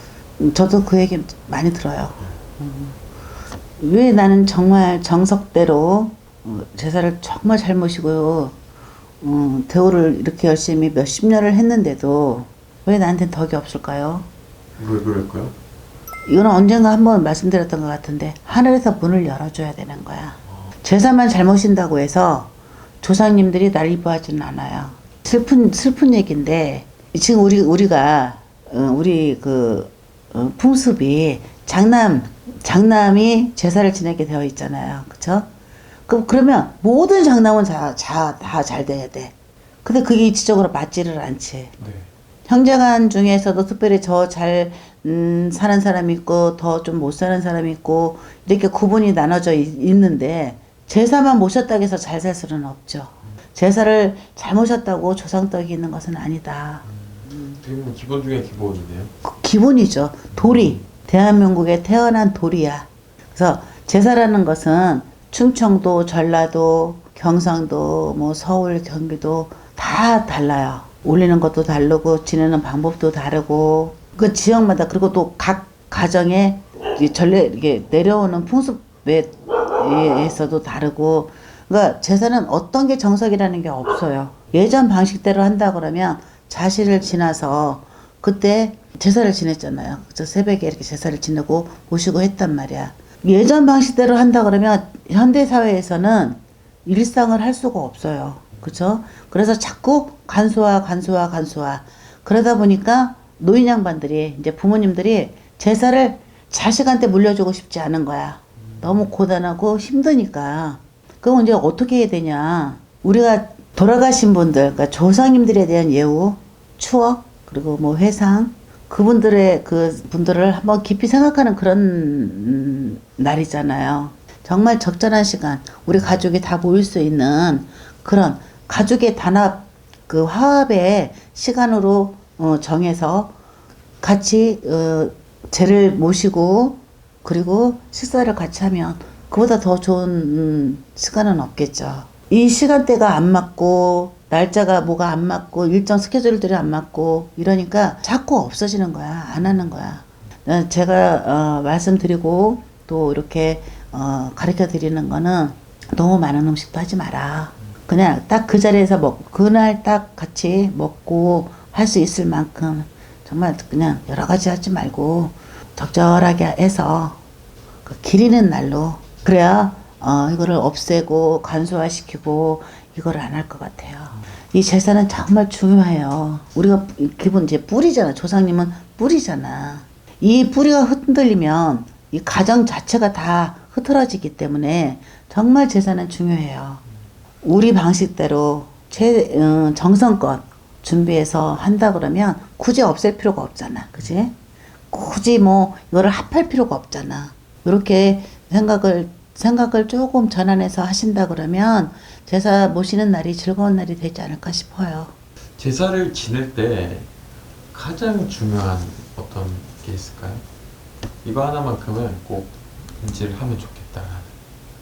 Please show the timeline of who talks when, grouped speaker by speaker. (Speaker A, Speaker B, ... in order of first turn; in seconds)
Speaker A: 0.4-3.0, 3.8-8.6, 9.2-14.3, 16.3-35.5, 36.1-41.8, 42.5-56.8, 59.2-133.3, 134.0-167.2, 167.8-186.8, 187.4-194.3, 194.9-205.1
Speaker B: 14.8-15.5, 41.8-42.1, 57.0-59.1, 60.3-60.8, 205.6-207.1, 207.7-210.4, 211.2-214.3